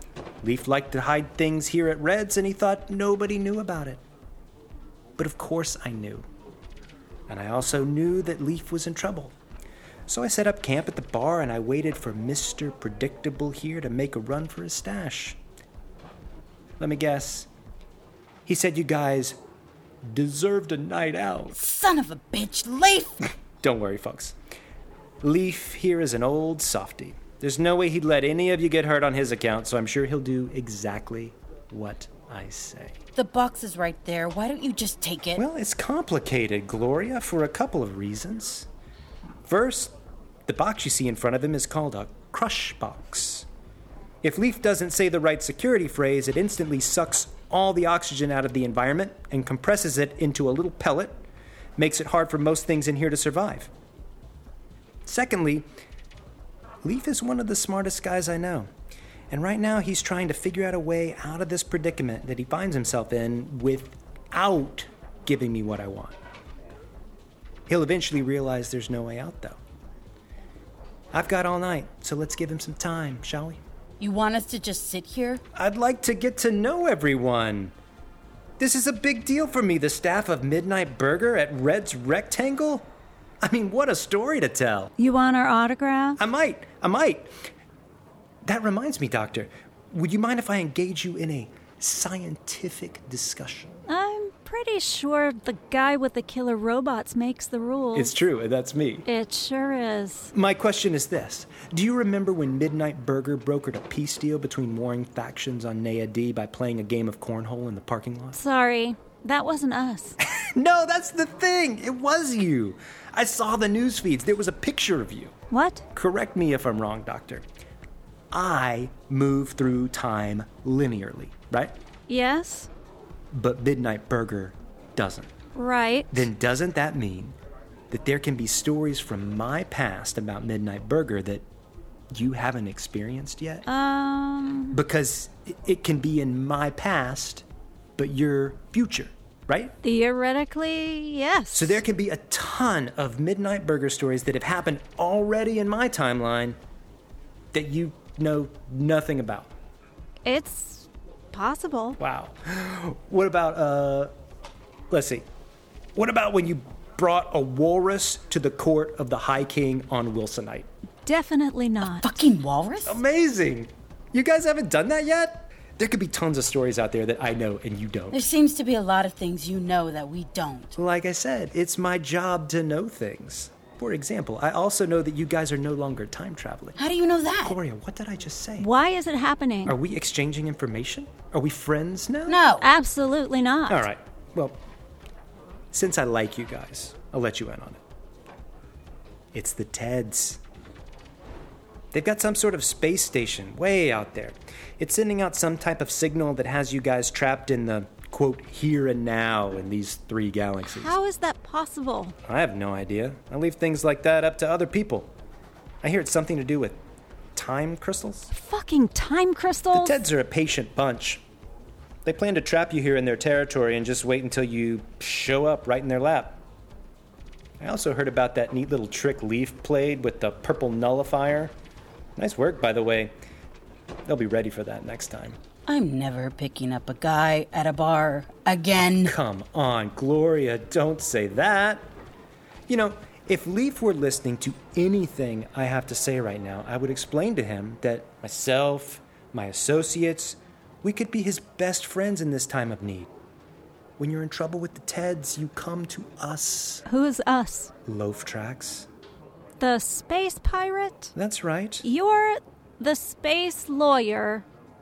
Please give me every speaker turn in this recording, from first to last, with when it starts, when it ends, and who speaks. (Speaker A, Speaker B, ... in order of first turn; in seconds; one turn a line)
Speaker A: 0.4-4.0
Speaker A: 5.2-6.3
Speaker A: 7.3-9.3
Speaker A: 10.1-15.4
Speaker A: 16.8-17.5
Speaker A: 18.5-19.4
Speaker A: 20.0-21.6
Speaker B: 21.5-23.2
Speaker A: 23.6-24.3
Speaker A: 25.2-33.0
Speaker B: 33.1-35.4
Speaker A: 35.4-38.7
Speaker A: 39.5-39.9
Speaker A: 40.5-43.5
Speaker A: 44.2-51.2
Speaker A: 51.8-53.7
Speaker A: 55.1-55.7
Speaker A: 56.8-58.7
Speaker A: 59.3-66.2
Speaker A: 67.7-69.6
Speaker A: 71.1-73.6
Speaker B: 74.0-75.4
Speaker A: 75.5-77.7
Speaker A: 78.6-82.9
Speaker A: 83.4-84.9
Speaker C: 85.0-86.2
Speaker A: 86.2-87.3
Speaker A: 88.5-93.8
Speaker C: 93.9-98.1
Speaker A: 97.9-99.1
Speaker C: 99.1-100.3
Speaker A: 100.3-108.4
Speaker C: 108.3-110.2
Speaker A: 110.5-115.3
Speaker C: 115.5-115.9
Speaker A: 115.9-117.5
Speaker A: 118.3-121.7
Speaker C: 122.1-122.7
Speaker A: 123.3-125.3
Speaker C: 125.5-126.3
Speaker A: 126.1-127.4
Speaker A: 127.9-131.4
Speaker A: 132.1-133.7
Speaker C: 133.7-134.8
Speaker A: 134.7-137.4
Speaker A: 138.0-139.7
Speaker C: 139.8-141.8
Speaker A: 141.5-146.6
Speaker A: 147.5-149.5
Speaker C: 150.2-152.0
Speaker A: 152.0-154.1
Speaker A: 154.9-155.2
Speaker A: 155.9-160.7
Speaker C: 161.1-162.1
Speaker B: 161.9-163.0
Speaker A: 162.9-168.2
Speaker B: 168.1-170.7
Speaker A: 170.8-176.8
Speaker B: 176.8-177.6
Speaker A: 177.4-178.7
Speaker C: 178.6-179.8
Speaker A: 179.7-182.4
Speaker B: 182.3-182.7
Speaker C: 182.6-183.9
Speaker A: 183.7-184.6
Speaker A: 185.7-187.8
Speaker A: 189.3-190.4
Speaker A: 191.9-200.9
Speaker C: 200.6-202.2
Speaker A: 202.3-205.1
Speaker A: 205.8-206.8
Speaker A: 207.3-208.3
Speaker C: 208.3-210.0
Speaker A: 209.7-211.2
Speaker A: 212.1-216.4
Speaker A: 217.6-221.5
Speaker A: 222.2-223.1
Speaker A: 224.1-225.4
Speaker B: 225.7-229.2
Speaker A: 229.1-231.9
Speaker A: 232.7-243.1
Speaker A: 244.0-246.8
Speaker C: 246.9-247.7
Speaker A: 247.8-248.9
Speaker C: 249.6-251.1
Speaker A: 251.1-251.8
Speaker C: 251.8-254.4